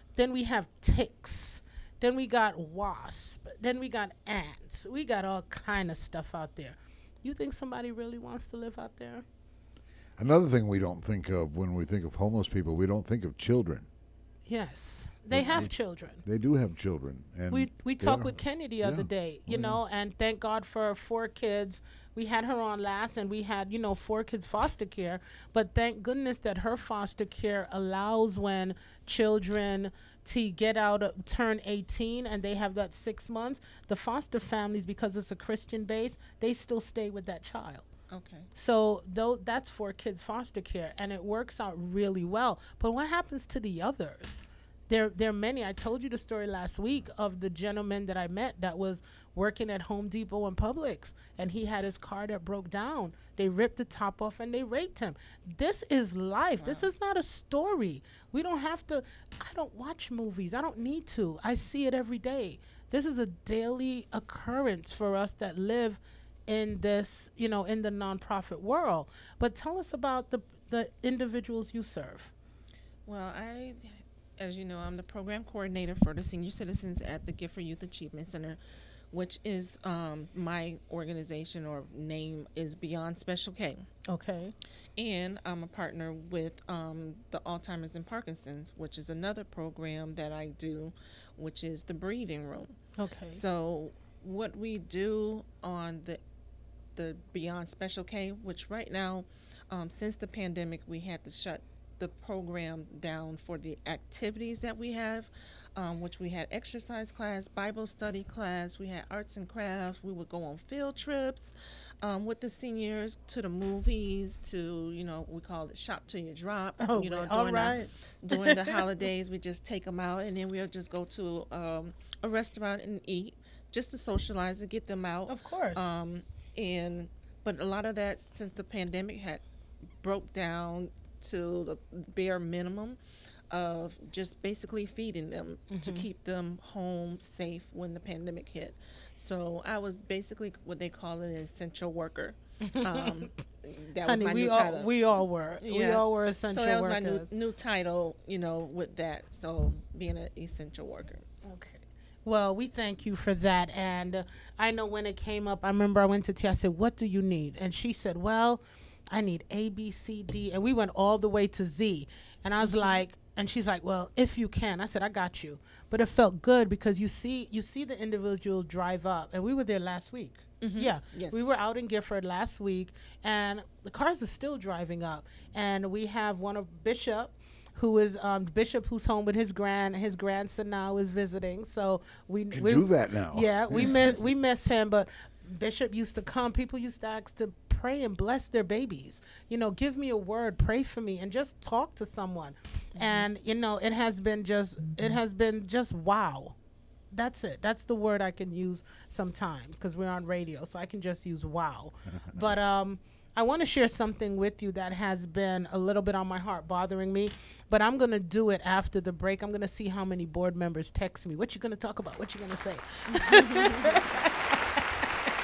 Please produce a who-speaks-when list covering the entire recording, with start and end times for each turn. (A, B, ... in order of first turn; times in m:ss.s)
0:00.2-0:09.2 A
0:10.2-0:13.9 B
0:14.5-0:16.2 A
0:15.3-0:15.7 B
0:16.2-0:19.8 B
0:17.5-0:37.9 A
0:38.1-0:38.5 C
0:38.6-1:12.3 A
0:56.6-0:56.9 C
1:13.1-1:18.6 C
1:19.1-1:23.8 C
1:24.1-1:24.5 A
1:25.0-1:32.8 C
1:33.0-1:33.4 A
1:33.3-1:36.2 C
1:37.0-2:09.4 C
1:56.8-1:58.8 A
2:05.3-2:05.8 A
2:10.0-2:13.0 C
2:13.5-2:24.9 C
2:15.7-2:16.1 A
2:22.7-2:23.1 A
2:24.1-2:27.3 A
2:25.6-2:31.2 C
2:31.4-3:16.6 A
2:42.6-2:43.0 C
2:50.6-2:51.4 C
3:02.5-3:04.1 B
3:17.1-3:34.8 A
3:33.1-3:34.0 C